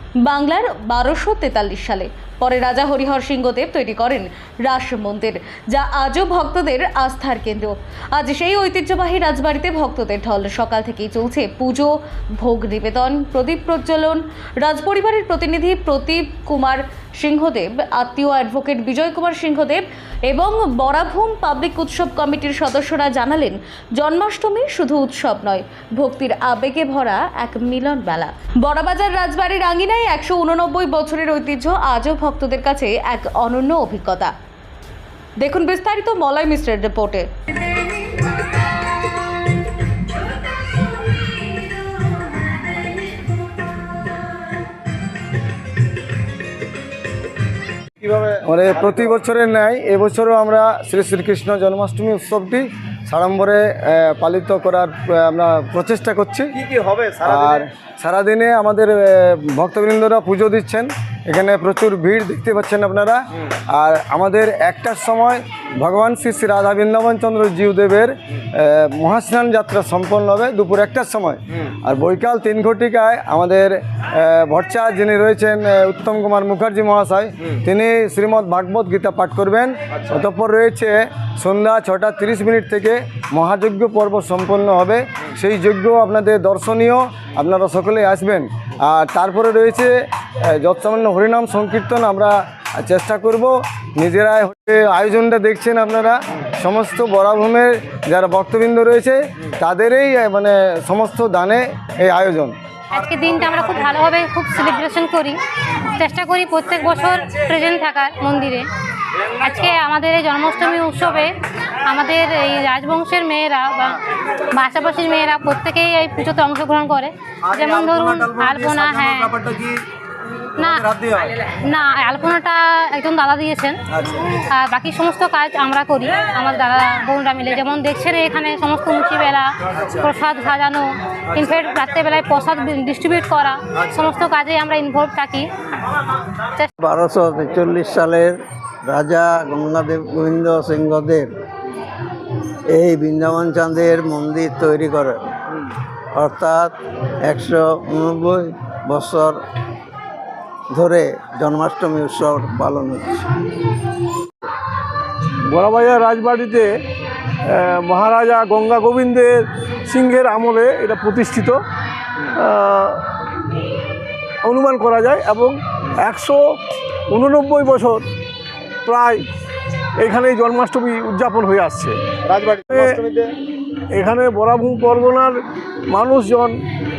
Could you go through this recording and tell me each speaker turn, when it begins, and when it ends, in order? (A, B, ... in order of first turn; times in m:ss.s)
0:00.2-0:34.3 A
0:35.4-0:37.3 A
0:48.0-0:49.0 B
0:48.4-0:56.5 C
0:56.6-0:57.6 B
0:57.2-1:42.5 C
1:42.9-1:45.4 D
1:45.9-1:48.7 D
1:49.2-1:59.5 D
1:57.5-1:59.8 B
2:00.6-2:03.8 D
2:00.6-2:01.3 B
2:04.3-2:15.5 D
2:16.4-2:16.7 D
2:16.8-2:21.3 E
2:22.7-2:25.3 E
2:26.1-2:29.4 E
2:30.7-2:33.3 E
2:35.4-2:36.8 F
2:37.4-2:41.6 F
2:42.3-2:43.1 F
2:44.4-2:46.4 F
2:47.1-2:48.0 F
2:48.8-2:49.2 F
2:50.0-2:52.0 F
2:52.3-2:53.3 B
2:52.7-2:53.0 F
2:53.9-2:55.4 F
2:55.9-2:56.5 F